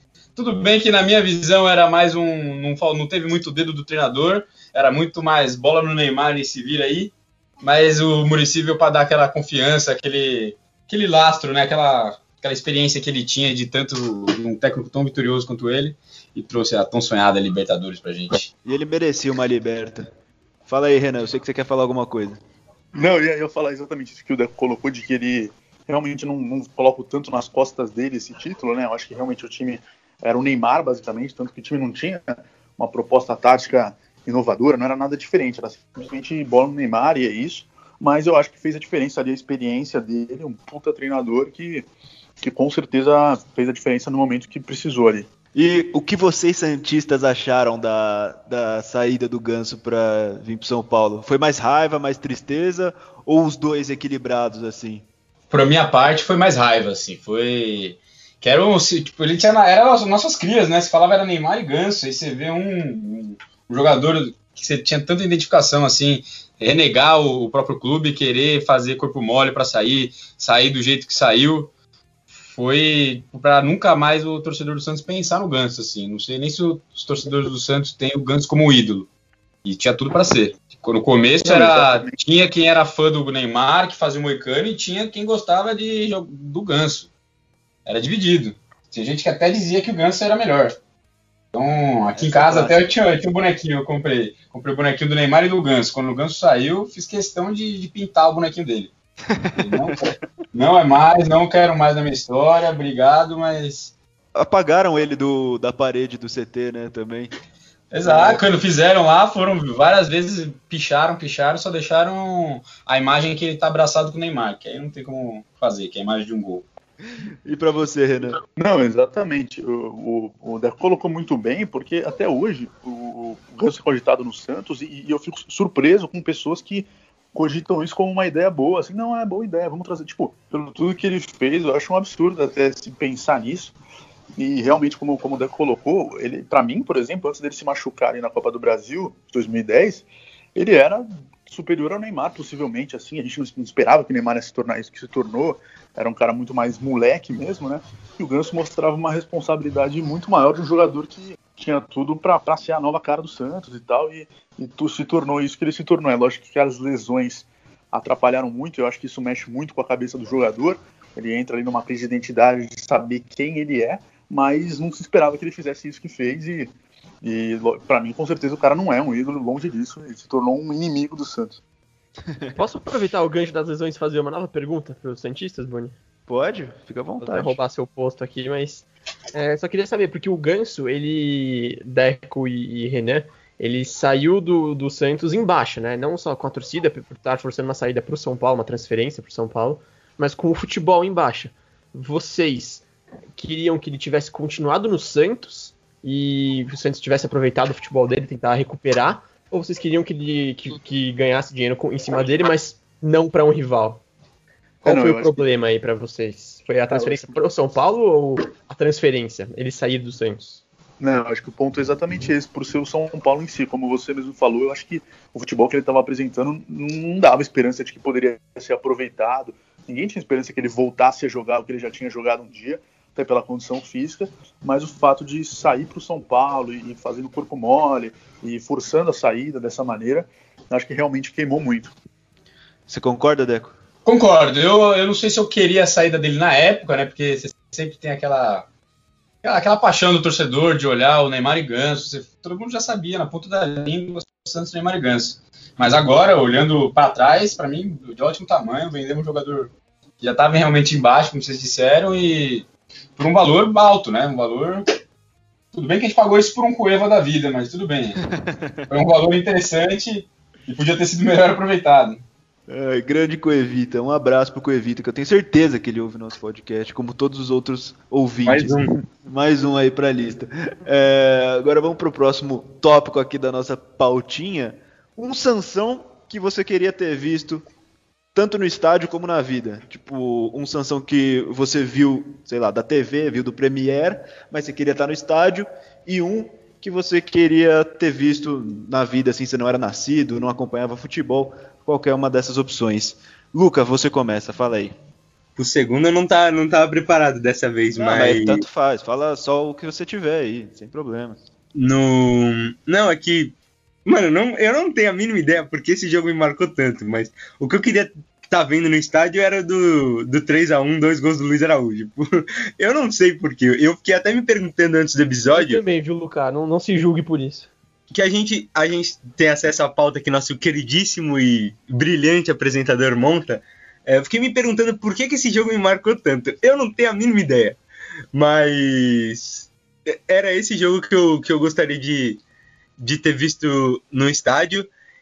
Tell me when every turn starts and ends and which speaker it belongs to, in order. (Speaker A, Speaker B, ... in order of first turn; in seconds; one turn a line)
Speaker A: 0.4-18.5
Speaker B: 18.6-20.1
Speaker B: 20.7-22.4
Speaker C: 22.9-32.2
Speaker C: 32.8-41.9
Speaker C: 42.4-45.3
Speaker B: 45.5-55.1
Speaker A: 55.5-71.7
Speaker A: 72.3-79.1
Speaker A: 79.6-87.1
Speaker C: 81.5-82.1
Speaker A: 87.9-90.8
Speaker A: 91.5-98.9
Speaker B: 92.2-92.9
Speaker B: 99.3-100.0
Speaker A: 99.6-104.0
Speaker B: 104.3-107.3
Speaker A: 107.9-116.7
Speaker B: 108.0-108.4
Speaker B: 117.5-118.4
Speaker C: 118.6-133.7
Speaker C: 134.4-171.6
Speaker B: 172.3-172.6
Speaker D: 172.6-175.9
Speaker B: 176.3-177.6
Speaker D: 177.2-192.8
Speaker D: 193.4-204.0
Speaker C: 204.8-205.5
Speaker D: 204.8-210.6
Speaker C: 206.9-207.4
Speaker C: 211.0-231.9
Speaker B: 232.9-233.8
Speaker A: 234.1-238.7
Speaker A: 239.4-254.8
Speaker A: 255.7-258.2
Speaker B: 258.3-258.9
Speaker A: 258.9-262.2
Speaker B: 262.7-277.7
Speaker E: 268.5-269.0
Speaker B: 278.3-294.9
Speaker E: 295.6-298.6
Speaker B: 298.0-301.4
Speaker E: 301.8-315.8
Speaker D: 315.5-317.7
Speaker E: 318.1-327.8
Speaker E: 328.3-332.4
Speaker E: 333.0-334.9